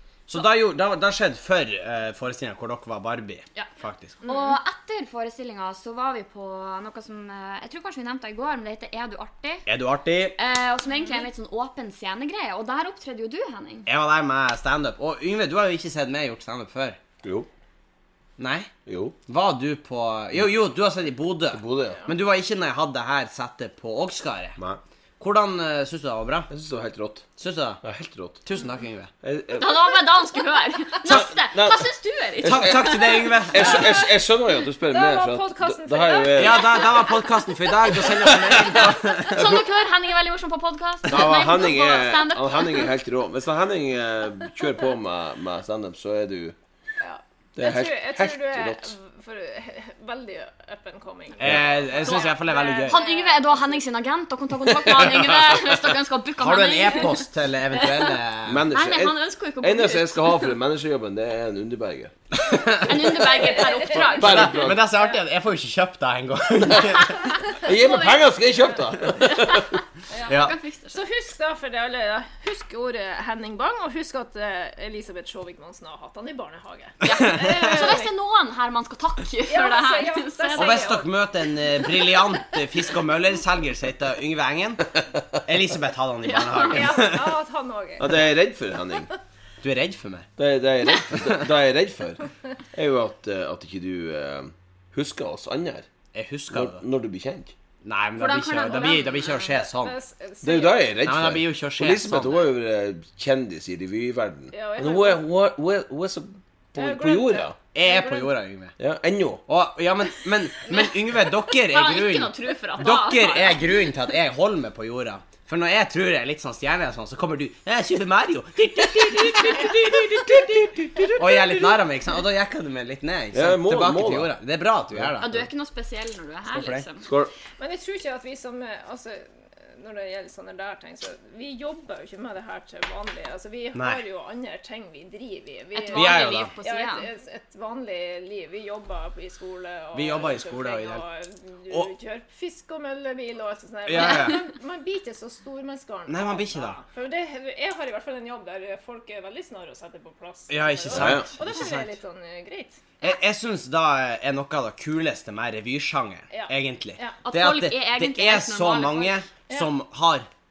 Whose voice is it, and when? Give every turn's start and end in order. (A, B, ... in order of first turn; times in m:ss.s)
0:00.3-0:04.2 A
0:04.2-0:04.6 B
0:04.2-0:09.6 C
0:09.6-0:10.4 A
0:10.4-0:13.9 C
0:13.9-0:17.0 A
0:17.2-0:17.5 D
0:18.4-0:18.7 A
0:18.9-0:19.1 D
0:19.3-0:24.6 A
0:21.5-0:22.0 D
0:25.2-0:26.5 A
0:26.5-0:27.3 D
0:27.4-0:27.8 A
0:27.8-0:28.4 D
0:28.4-0:29.1 A
0:29.2-0:29.8 D
0:29.5-0:34.0 C
0:31.0-0:31.9 D
0:32.4-0:33.9 A
0:32.4-0:32.7 D
0:33.5-0:36.8 D
0:34.8-0:37.0 B
0:36.3-0:39.6 A
0:38.2-0:38.8 D
0:39.3-0:42.9 C
0:41.0-0:46.5 D
0:47.0-0:53.8 B
0:47.5-0:48.9 D
0:51.4-0:53.0 A
0:51.4-0:51.9 D
0:52.0-0:58.2 C
0:54.8-0:55.8 D
0:56.4-0:58.6 A
0:58.4-1:02.1 D
0:58.7-1:00.5 C
1:02.4-1:03.1 A
1:02.8-1:04.6 C
1:03.1-1:05.2 B
1:03.9-1:04.8 D
1:04.2-1:07.4 A
1:07.6-1:09.7 D
1:07.6-1:08.3 C
1:09.2-1:11.0 C
1:10.1-1:18.1 B
1:10.3-1:10.5 A
1:17.0-1:17.9 A
1:17.0-1:21.0 C
1:19.5-1:21.1 B
1:20.5-1:27.4 A
1:26.2-1:27.0 C
1:26.6-1:28.2 B
1:28.0-1:29.1 D
1:29.6-1:30.3 A
1:30.4-1:35.9 D
1:31.1-1:31.4 A
1:36.1-1:36.8 A
1:36.5-1:37.5 D
1:37.8-1:40.0 A
1:38.2-1:39.6 C
1:38.6-1:40.9 B
1:40.4-1:47.5 D
1:41.0-1:42.4 A
1:44.5-1:45.2 B
1:46.8-1:48.3 B
1:47.7-1:48.8 A
1:48.8-1:49.4 D
1:49.5-2:05.4 A
1:51.5-1:53.7 C
2:00.8-2:01.7 D
2:03.3-2:04.3 D
2:05.2-2:07.1 C
2:06.5-2:06.9 A
2:07.0-2:07.3 D
2:07.6-2:32.8 B
2:13.7-2:14.0 A
2:15.7-2:17.1 C
2:15.9-2:16.5 A
2:19.9-2:21.0 A
2:23.9-2:24.4 A
2:26.1-2:26.8 A
2:30.5-2:31.9 A
2:30.9-2:31.3 D
2:33.0-2:40.3 A
2:36.3-2:37.2 B
2:37.2-2:39.2 C